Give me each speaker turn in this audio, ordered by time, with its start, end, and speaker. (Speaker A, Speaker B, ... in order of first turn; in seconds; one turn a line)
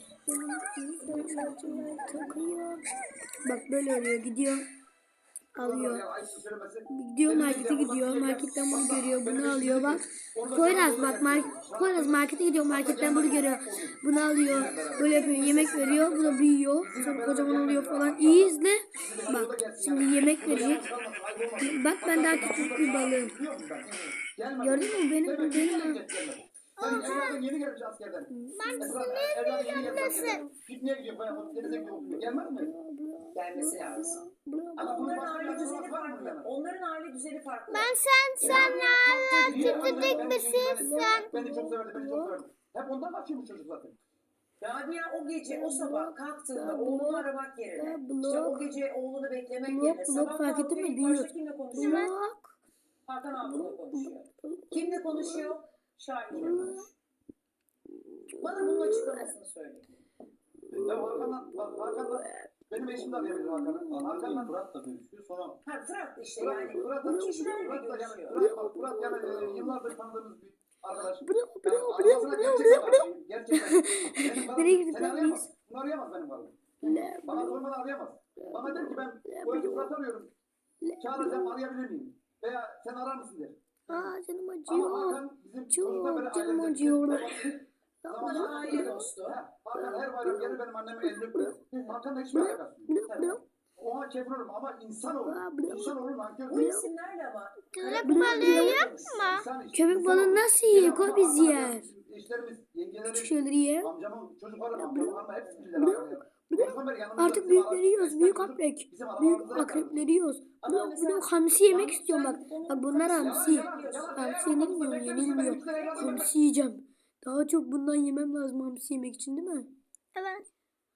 Speaker A: 0.3-2.8
Speaker B: 1.6-2.0
Speaker A: 3.4-4.6
Speaker A: 5.5-6.0
Speaker B: 5.6-32.7
Speaker A: 6.9-20.9
Speaker C: 15.1-15.6
Speaker A: 21.6-23.3
Speaker A: 24.6-26.0
Speaker D: 26.8-27.4
Speaker A: 28.3-29.0
Speaker D: 28.5-30.4
Speaker A: 29.9-30.5
Speaker A: 31.3-35.3
Speaker C: 33.3-34.2
Speaker B: 34.8-36.5
Speaker C: 34.8-40.4
Speaker D: 37.7-41.3
Speaker B: 38.4-38.7
Speaker B: 39.5-44.0
Speaker A: 40.0-42.4
Speaker C: 44.6-52.1
Speaker A: 45.5-48.7
Speaker A: 49.6-52.5
Speaker D: 51.8-52.1
Speaker C: 53.0-56.9
Speaker A: 53.4-55.5
Speaker B: 56.3-56.7
Speaker A: 56.3-56.8
Speaker A: 58.3-59.3
Speaker C: 58.4-59.8
Speaker A: 60.7-64.5
Speaker B: 60.7-65.6
Speaker C: 65.6-68.4
Speaker B: 66.4-76.6
Speaker A: 66.8-67.7
Speaker A: 68.3-69.8
Speaker A: 71.2-75.5
Speaker A: 76.8-77.6
Speaker B: 77.2-80.3
Speaker A: 78.4-79.9
Speaker A: 80.8-81.6
Speaker B: 81.0-84.1
Speaker A: 83.9-87.5
Speaker B: 84.7-96.7
Speaker A: 88.0-89.1
Speaker C: 88.2-89.4
Speaker A: 89.7-91.5
Speaker A: 92.3-93.4
Speaker A: 95.1-95.9
Speaker C: 96.5-99.3
Speaker A: 96.5-96.9
Speaker D: 97.7-99.5
Speaker A: 98.0-98.9
Speaker B: 98.3-110.0
Speaker A: 99.7-101.9
Speaker A: 103.0-103.9
Speaker A: 104.7-119.7
Speaker C: 110.6-114.5
Speaker B: 113.2-116.3
Speaker C: 115.1-116.3
Speaker D: 120.1-120.4